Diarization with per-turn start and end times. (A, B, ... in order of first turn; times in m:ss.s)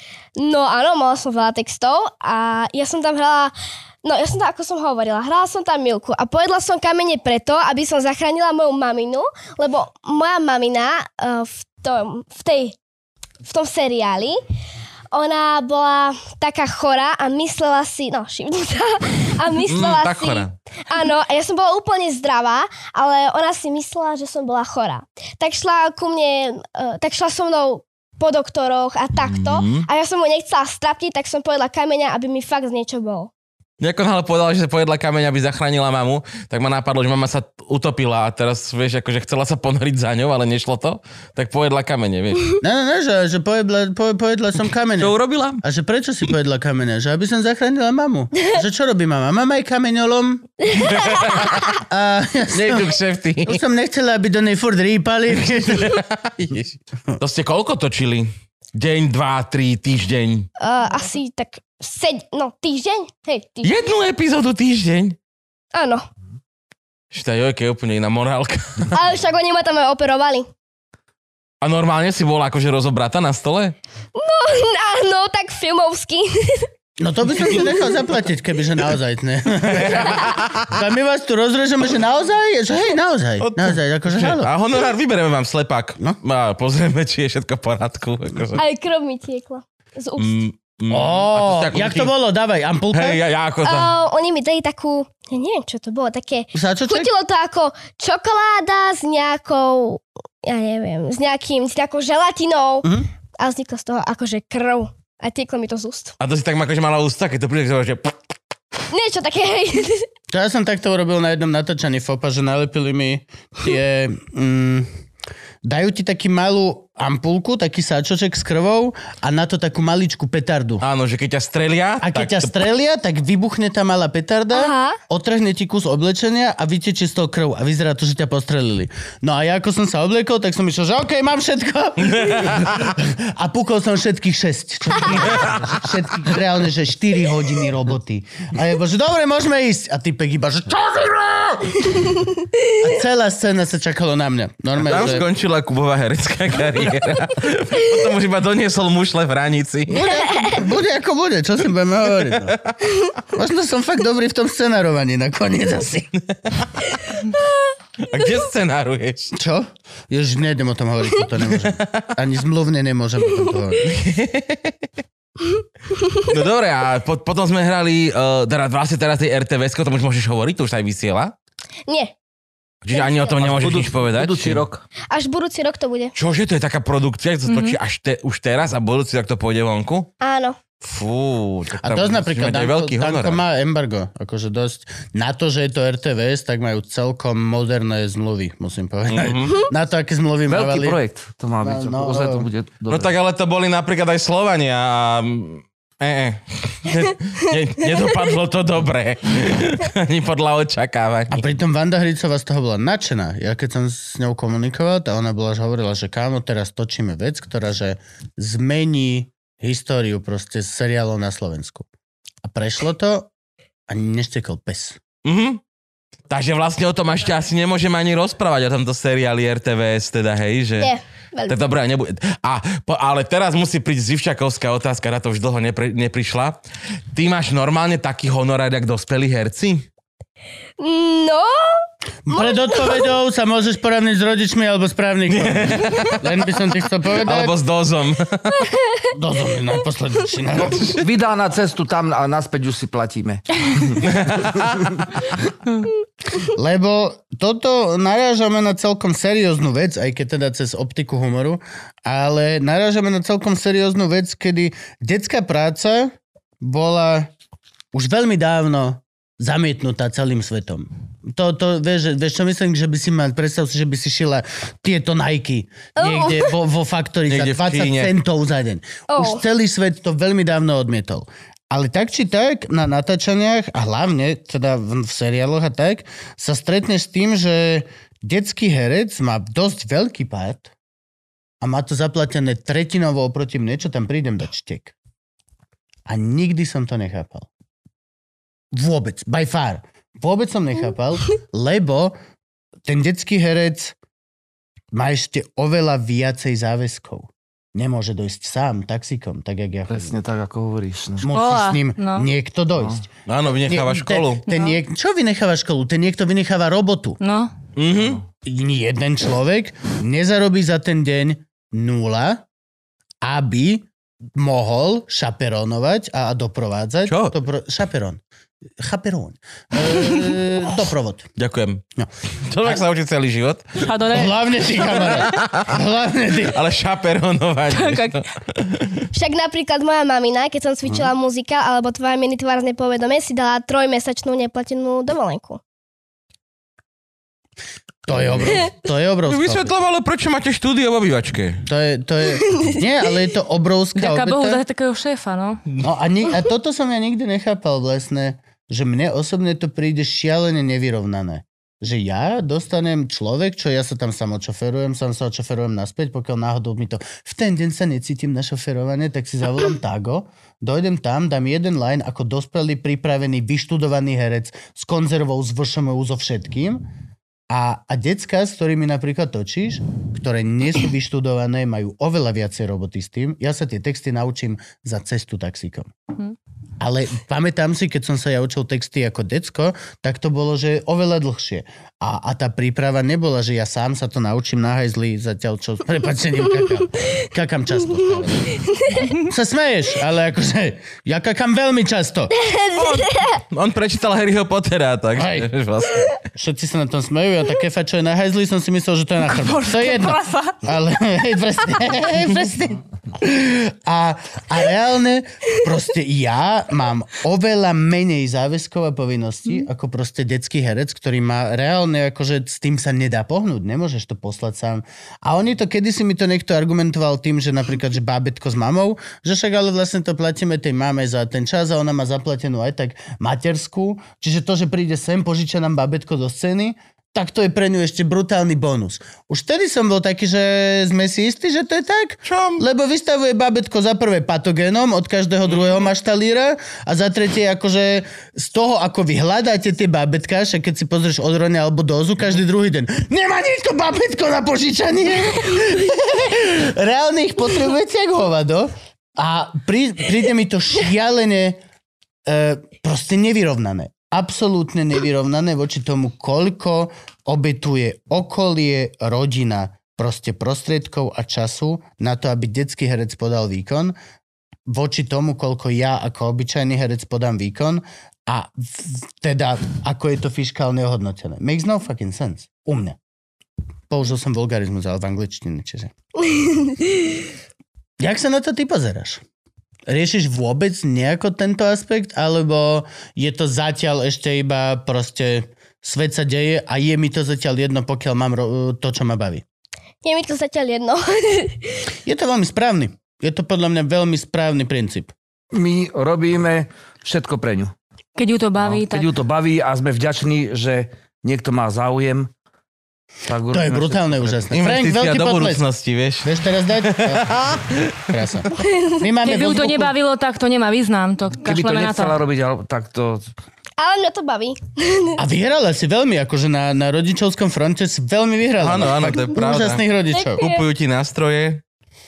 0:00.4-0:12.8 A
0:13.4-0:14.4 A
0:15.1-0:33.3 A
0:19.7-0:20.5 B
0:29.2-0:29.9 B
0:33.8-0:42.5 B
0:42.6-0:50.5 C
0:45.0-0:45.6 B
0:50.6-0:51.5 A
0:50.8-0:51.7 B
0:51.7-0:56.0 C
0:52.5-0:53.6 B
0:55.5-1:00.5 B
1:00.6-1:03.7 A
1:03.6-1:05.2 B
1:05.7-1:06.0 A
1:07.1-1:09.0 B
1:08.9-1:10.5 A
1:11.6-1:13.8 B
1:14.2-1:16.7 A
1:17.0-1:24.5 C
1:19.6-1:20.8 B
1:23.4-1:28.6 B
1:28.6-1:30.4 A
1:30.2-1:32.1 B
1:30.9-1:33.2 C
1:32.9-1:33.9 B
1:33.6-1:46.2 A
1:36.5-1:37.1 C
1:46.2-1:48.2 B
1:48.9-1:50.1 A
1:50.3-1:54.9 C
1:55.6-2:00.8 C
2:00.8-2:02.5 B
2:02.0-2:22.0 C
2:04.5-2:05.0 A
2:12.1-2:12.9 B
2:15.1-2:15.8 B
2:22.8-2:25.3 C
2:24.8-2:30.1 B
2:29.9-2:32.6 C
2:33.3-2:36.2 C
2:36.6-2:36.9 B
2:38.0-2:39.3 B
2:39.3-2:44.0 C
2:41.5-2:42.1 B
2:43.8-2:44.7 B
2:45.9-2:46.2 A
2:46.2-2:51.3 B
2:51.9-2:52.1 A
2:52.8-2:54.6 B
2:52.9-2:53.4 A
2:53.4-2:54.8 D
2:55.1-2:56.1 A
2:56.2-3:00.1 B
2:57.5-2:57.8 E
3:00.2-3:00.6 A
3:00.8-3:03.4 B
3:01.8-3:11.0 C
3:09.1-3:09.6 B
3:10.5-3:13.1 D
3:11.6-3:12.5 C
3:12.9-3:21.4 B
3:21.3-3:31.9 C
3:32.4-3:33.3 C
3:33.9-3:35.0 C
3:35.2-3:35.6 B
3:36.3-3:40.9 B
3:40.8-3:41.6 A
3:41.5-3:46.6 B
3:47.1-3:49.9 B
3:50.8-3:51.8 A
3:52.3-3:57.5 C
3:52.3-3:53.0 A
3:55.3-3:56.2 B
3:57.2-3:58.7 B
3:58.6-3:59.0 A
3:59.1-4:00.9 C
4:00.6-4:01.0 B
4:01.0-4:04.0 D
4:04.0-4:04.9 B
4:06.4-4:17.3 C
4:17.9-4:40.7 C
4:26.0-4:26.5 A
4:27.3-4:28.1 B
4:29.1-4:29.4 A
4:41.6-4:44.9 C
4:46.1-4:47.5 C
4:48.7-4:52.2 C
4:52.8-4:54.0 C
4:54.9-5:00.2 C
4:59.9-5:01.3 D
5:01.2-5:03.0 C
5:01.3-5:02.3 E
5:03.3-5:04.4 B
5:03.7-5:07.2 C
5:04.5-5:04.8 E
5:07.2-5:07.5 E
5:07.8-5:08.2 B
5:08.4-5:12.4 C
5:13.2-5:18.2 C
5:17.1-5:17.3 B
5:18.8-5:21.3 C
5:21.4-5:21.8 B
5:22.4-5:23.8 B
5:23.8-5:25.0 E
5:24.1-5:26.6 C
5:25.1-5:25.7 B
5:26.4-5:29.1 B
5:27.7-5:28.2 E
5:29.1-5:35.6 A
5:38.1-5:39.7 C
5:39.3-5:41.6 B
5:41.7-5:44.6 C
5:44.0-5:45.6 E
5:45.8-6:06.9 C
6:07.5-6:15.9 C
6:16.8-6:32.3 C
6:28.7-6:29.1 A
6:32.3-6:33.4 A
6:32.8-6:36.1 B
6:35.2-6:35.5 C
6:36.4-7:31.6 C
6:39.3-6:40.6 E
7:12.3-7:12.6 B
7:32.3-7:44.0 C
7:44.7-7:53.0 C
7:53.9-7:55.9 C
7:56.2-7:57.2 A
7:58.0-7:59.2 C
7:59.9-8:09.4 C
8:10.0-8:11.8 A
8:12.0-8:15.1 C
8:15.5-8:17.7 D
8:18.2-8:19.1 E
8:18.6-8:22.3 D
8:23.3-8:24.5 D
8:23.5-8:25.6 C
8:24.5-8:28.0 B
8:26.2-8:29.9 C
8:28.6-8:28.9 A
8:29.2-8:32.2 E
8:31.4-8:33.3 D
8:33.8-8:35.2 A
8:35.2-8:40.4 C
8:38.6-8:39.8 B
8:40.1-8:40.6 A
8:40.4-8:41.6 B